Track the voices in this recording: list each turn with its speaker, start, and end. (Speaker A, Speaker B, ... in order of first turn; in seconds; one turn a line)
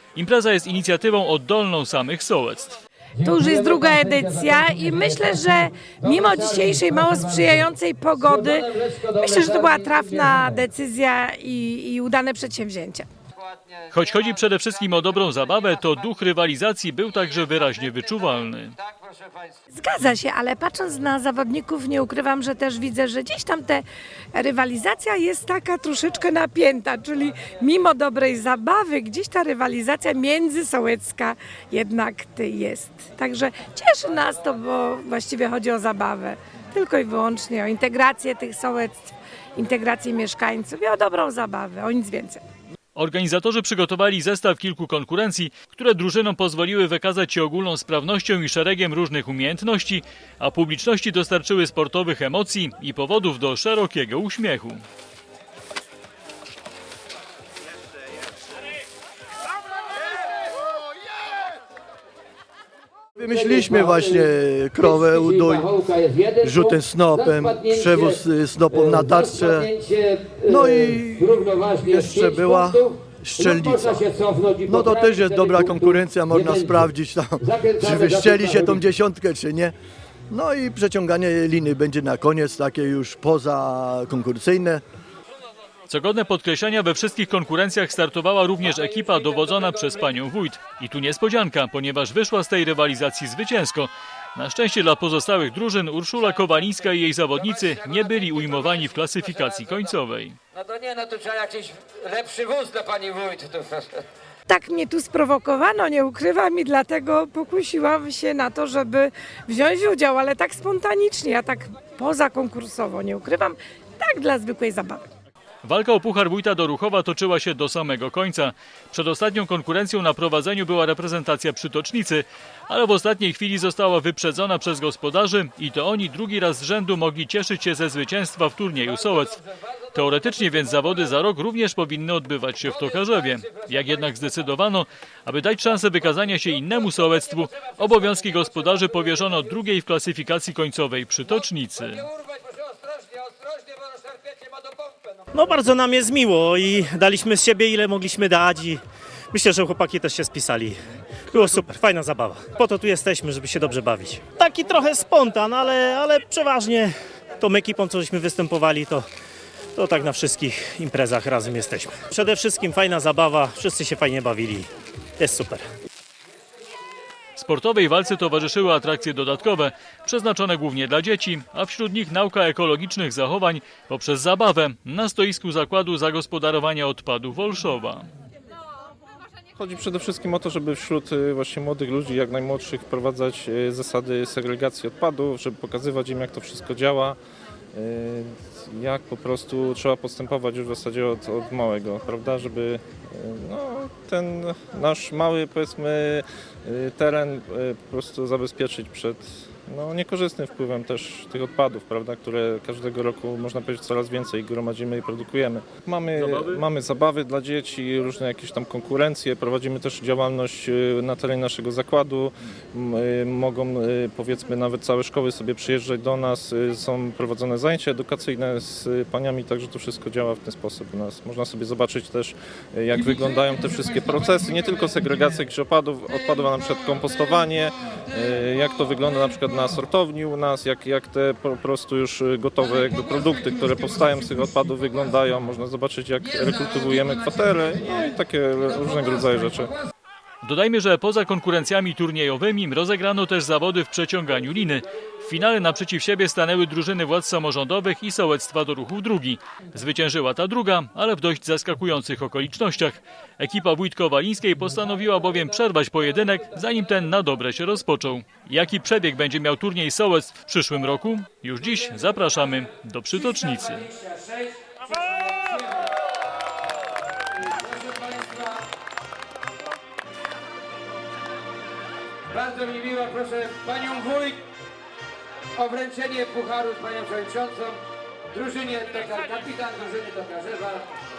Speaker A: 0.1-2.8
Speaker B: 3.2-10.6
Speaker C: 3.2-13.1
Speaker A: 13.9-18.8
Speaker B: 19.0-19.4
Speaker C: 19.7-42.4
Speaker A: 42.9-54.8
Speaker D: 63.2-65.7
Speaker B: 63.2-78.8
Speaker D: 66.4-69.7
Speaker D: 70.5-74.1
Speaker D: 74.7-79.7
Speaker D: 80.3-84.8
Speaker A: 85.9-100.4
Speaker B: 100.5-104.0
Speaker C: 104.5-115.0
Speaker A: 115.6-129.4
Speaker A: 129.9-142.1
Speaker B: 142.4-144.5
Speaker E: 145.3-159.1
Speaker E: 159.8-165.7
Speaker A: 167.3-178.1
Speaker F: 179.6-187.2
Speaker F: 187.7-239.7
Speaker A: 206.2-206.6
Speaker A: 240.4-263.9
Speaker B: 263.9-265.9
Speaker B: 267.4-268.6
Speaker B: 272.3-274.4
Speaker B: 275.6-277.8
Speaker B: 278.3-280.9